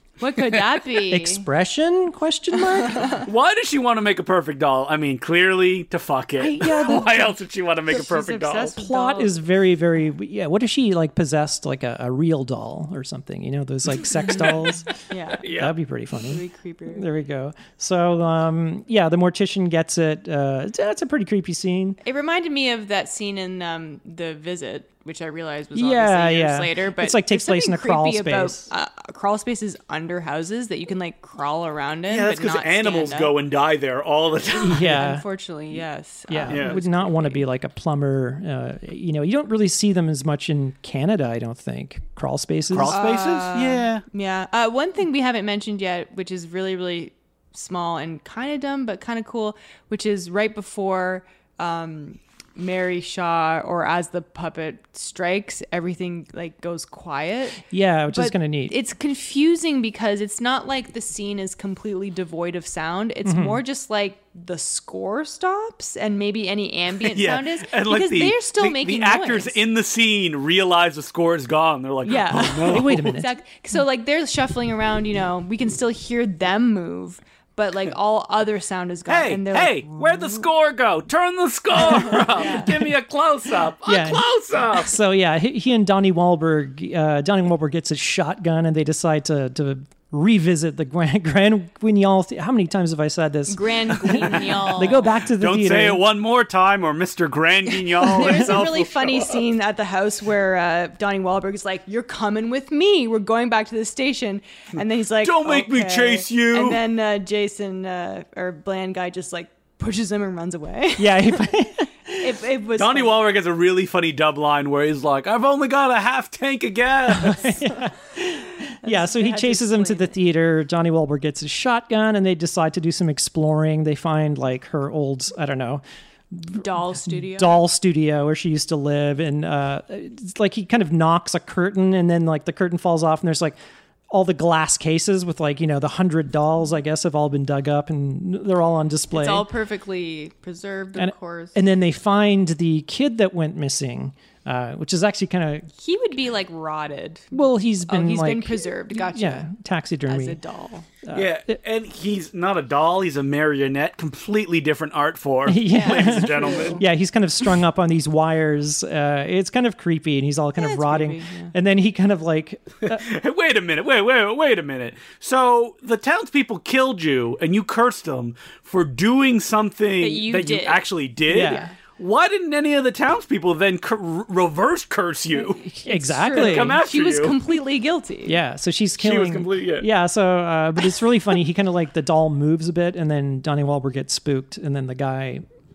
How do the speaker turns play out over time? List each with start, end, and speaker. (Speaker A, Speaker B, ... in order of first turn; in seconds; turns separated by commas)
Speaker A: 0.2-1.5, Speaker B: 1.1-3.1, Speaker A: 2.8-3.2, Speaker C: 3.2-8.8, Speaker B: 6.4-7.3, Speaker A: 7.9-9.3, Speaker B: 8.8-22.0, Speaker A: 15.1-15.5, Speaker C: 15.4-15.7, Speaker A: 16.3-17.1, Speaker A: 22.0-33.3, Speaker B: 25.8-28.7, Speaker C: 32.1-35.0, Speaker B: 34.6-35.2, Speaker A: 34.7-37.4, Speaker B: 36.3-43.0, Speaker C: 36.5-36.8, Speaker C: 42.7-44.0, Speaker A: 42.9-69.6, Speaker B: 57.7-58.8, Speaker B: 63.2-63.6, Speaker C: 67.1-73.2, Speaker A: 72.0-80.4, Speaker B: 72.6-73.3, Speaker C: 79.1-84.9, Speaker A: 81.8-82.7, Speaker B: 83.8-96.0, Speaker A: 93.5-95.1, Speaker C: 95.3-99.4, Speaker A: 97.9-111.5, Speaker B: 98.2-98.6, Speaker C: 105.2-106.8, Speaker B: 111.0-112.3, Speaker A: 112.2-113.2, Speaker C: 112.8-117.5, Speaker B: 117.1-133.6, Speaker A: 118.8-120.2, Speaker A: 126.5-127.7, Speaker B: 134.1-139.5, Speaker A: 139.1-141.6, Speaker B: 141.0-145.7, Speaker A: 145.8-149.5, Speaker B: 147.3-150.4, Speaker A: 150.1-150.9, Speaker B: 151.0-151.4, Speaker C: 151.1-156.8, Speaker B: 155.5-163.0, Speaker A: 155.7-156.8, Speaker A: 160.6-161.5, Speaker C: 162.9-175.7, Speaker A: 170.0-171.7, Speaker B: 171.3-171.7, Speaker B: 175.7-176.8, Speaker A: 175.8-178.4, Speaker C: 176.3-177.4, Speaker B: 178.3-185.4, Speaker C: 179.0-179.9